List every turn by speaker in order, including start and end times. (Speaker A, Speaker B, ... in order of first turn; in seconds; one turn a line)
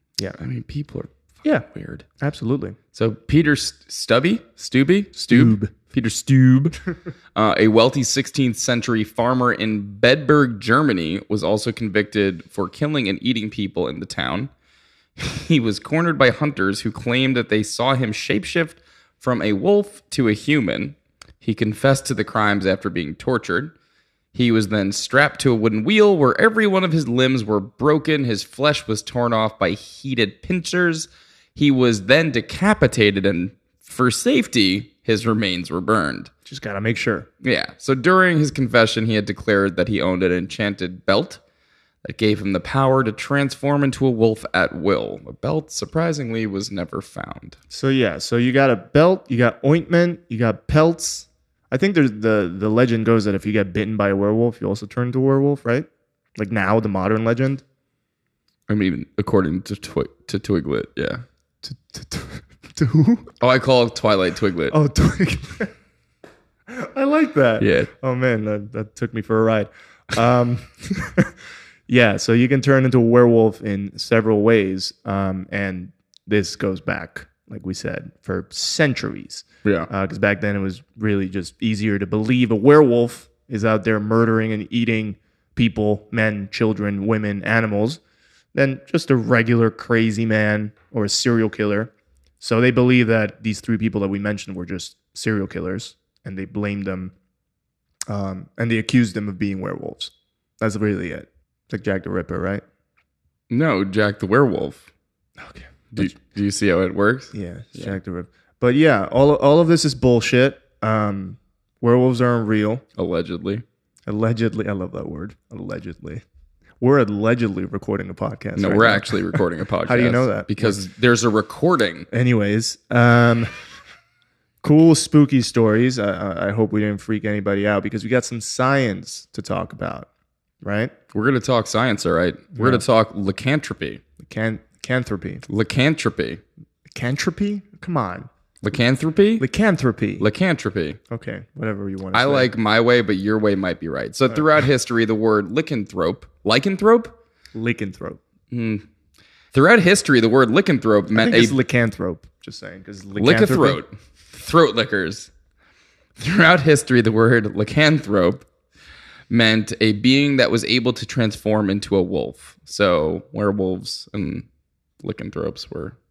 Speaker A: 0.4-2.1
Speaker B: 2.2-2.8
Speaker A: 2.9-6.8
Speaker B: 5.2-5.7
Speaker A: 7.3-14.5
Speaker A: 15.2-23.7
Speaker A: 24.3-36.3
Speaker B: 36.5-37.3
Speaker A: 37.4-41.4
Speaker A: 42.0-47.6
Speaker B: 47.7-57.6
Speaker A: 58.7-61.2
Speaker B: 61.6-63.3
Speaker A: 63.4-64.8
Speaker B: 64.7-65.7
Speaker B: 66.7-71.3
Speaker A: 67.6-67.9
Speaker B: 71.9-88.0
Speaker B: 88.5-97.1
Speaker B: 98.1-102.6
Speaker A: 103.5-104.9
Speaker B: 105.4-106.1
Speaker A: 105.9-108.0
Speaker B: 107.3-112.8
Speaker A: 113.0-113.6
Speaker B: 114.1-116.2
Speaker B: 116.8-120.8
Speaker A: 118.6-122.1
Speaker B: 122.1-123.6
Speaker B: 124.6-130.1
Speaker B: 130.6-130.9
Speaker A: 131.1-134.0
Speaker B: 132.6-132.8
Speaker B: 134.2-135.4
Speaker A: 135.5-136.4
Speaker B: 136.9-138.3
Speaker A: 138.6-139.4
Speaker B: 139.4-140.3
Speaker A: 140.2-141.0
Speaker B: 141.1-142.5
Speaker A: 142.1-147.1
Speaker B: 147.5-148.2
Speaker A: 148.5-148.8
Speaker A: 149.5-151.6
Speaker B: 151.1-153.8
Speaker A: 153.2-155.3
Speaker A: 156.2-158.5
Speaker A: 159.3-164.5
Speaker A: 165.0-166.0